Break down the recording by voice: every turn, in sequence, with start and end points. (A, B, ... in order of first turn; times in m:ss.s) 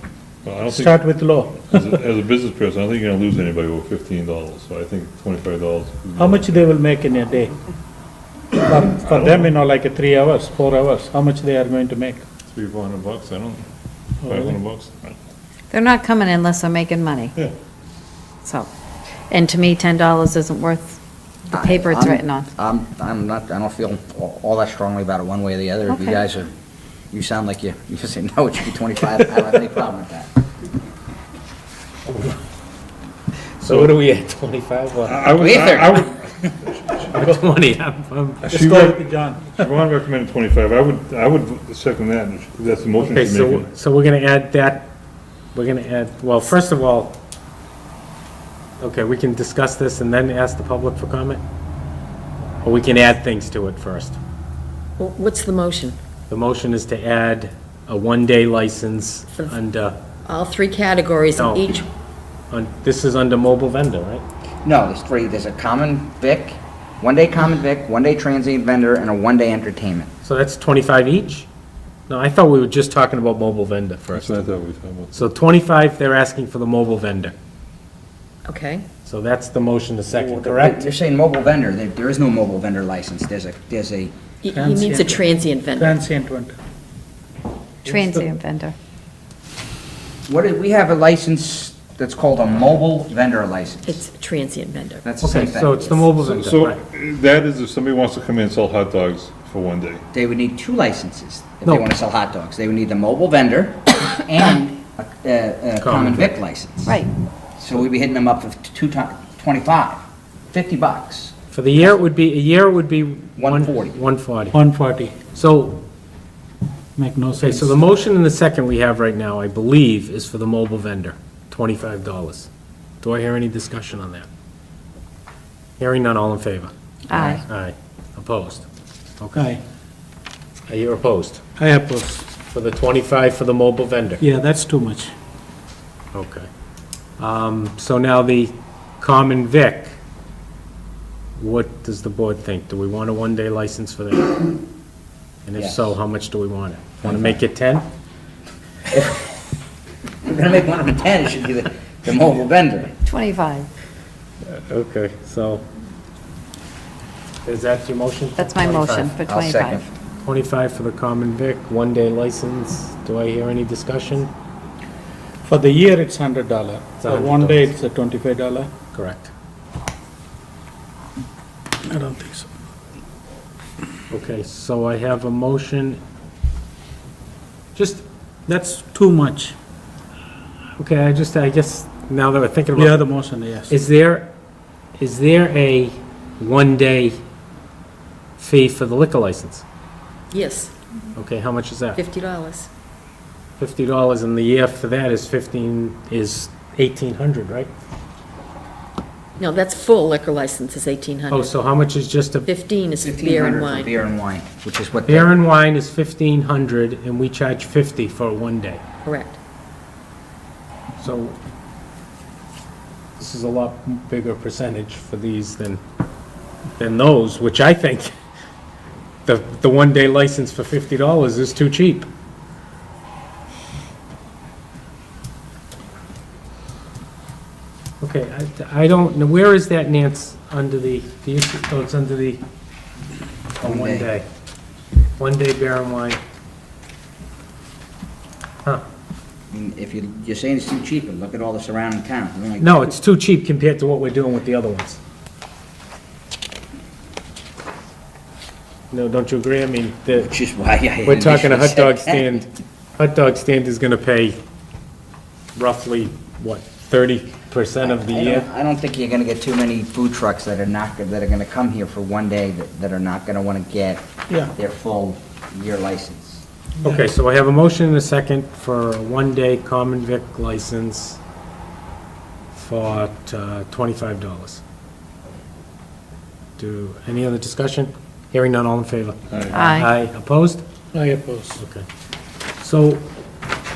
0:00.4-0:01.0 A
0:00.7-0:01.9 B
0:01.6-0:06.7 A
0:06.2-0:07.5 B
0:08.6-0:12.2 B
0:08.9-0:09.6 A
0:12.5-0:13.6 A
0:14.2-0:15.2 A
0:14.2-0:14.6 B
0:15.7-0:17.4 C
0:18.4-0:18.7 C
0:19.3-0:21.0 C
0:21.5-0:22.5 C
0:21.5-0:26.5 D
0:27.1-0:30.3 D
0:32.1-0:32.4 E
0:33.6-0:35.2 E
0:33.7-0:33.9 A
0:35.0-0:37.3 A
0:35.4-0:36.0 D
0:37.1-0:38.5 E
0:38.4-0:39.6 B
0:38.5-0:43.7 A
0:43.0-0:44.9 E
0:45.5-0:47.2 E
0:48.8-0:51.4 E
0:52.6-0:54.2 E
0:55.0-0:56.0 F
0:56.3-1:00.0 E
1:00.2-1:01.8 F
1:01.4-1:01.7 E
1:02.5-1:04.2 E
1:04.6-1:10.1 D
1:10.2-1:11.5 E
1:12.1-1:14.4 E
1:14.1-1:15.2 A
1:15.1-1:17.3 E
1:18.4-1:18.8 F
1:19.0-1:20.9 E
1:20.1-1:24.1 D
1:24.4-1:26.0 F
1:24.5-1:26.6 B
1:27.8-1:28.7 C
1:27.9-1:28.2 B
1:30.3-1:34.0 D
1:33.8-1:35.0 F
1:35.0-1:36.0 D
1:35.2-1:36.8 E
1:36.2-1:40.0 A
1:40.1-1:46.9 D
1:45.8-1:46.3 E
1:47.6-1:52.0 D
1:51.5-1:54.5 E
1:53.4-1:54.0 D
1:54.5-1:55.1 B
1:55.3-1:55.8 E
1:57.0-1:57.9 B
1:57.3-2:02.5 E
2:03.0-2:04.3 E
2:05.8-2:06.7 E
2:07.1-2:07.4 C
2:07.1-2:07.4 D
2:07.4-2:08.6 E
2:09.2-2:09.5 E
2:09.3-2:09.6 B
2:10.7-2:11.4 E
2:11.6-2:12.3 B
2:12.5-2:14.2 E
2:14.2-2:15.1 B
2:16.1-2:16.5 E
2:17.2-2:19.9 E
2:21.4-2:24.6 E
2:25.4-2:27.8 E
2:25.6-2:25.9 D
2:27.0-2:27.3 D
2:28.9-2:29.3 D
2:30.2-2:32.9 D
2:33.0-2:33.7 C
2:34.5-2:35.6 E
2:37.4-2:39.1 E
2:38.4-2:39.8 C
2:39.3-2:39.9 D
2:40.2-2:44.3 E
2:45.4-2:48.7 B
2:47.0-2:47.7 E
2:48.9-2:49.3 E
2:51.8-2:52.5 B
2:54.1-2:56.0 E
2:57.7-2:58.0 E
2:58.5-2:59.6 B
3:00.8-3:03.0 E
3:02.7-3:03.7 B
3:03.7-3:04.3 E
3:05.0-3:07.2 E
3:08.4-3:09.6 E
3:10.3-3:10.7 F
3:11.2-3:12.0 E
3:11.9-3:12.7 F
3:13.6-3:17.7 E
3:19.4-3:21.5 F
3:21.3-3:22.5 E
3:22.4-3:24.0 F
3:23.0-3:25.3 D
3:25.1-3:28.8 E
3:29.0-3:29.4 F
3:31.0-3:31.4 E
3:33.2-3:35.8 E
3:36.8-3:38.1 E
3:39.2-3:42.1 E
3:48.0-3:52.4 E
3:53.6-3:54.2 E
3:53.6-3:54.1 D
3:55.2-3:56.2 E
3:59.5-4:02.9 D
4:02.6-4:05.0 E
4:08.9-4:10.3 E
4:10.1-4:12.3 D
4:11.0-4:14.4 E
4:15.5-4:18.5 E
4:17.8-4:26.4 D
4:26.8-4:31.2 E
4:32.5-4:34.6 E
4:36.6-4:40.6 E
4:39.3-4:39.6 A
4:39.5-4:39.9 C
4:40.9-4:41.6 B
4:41.6-4:41.8 E
4:42.6-4:43.0 E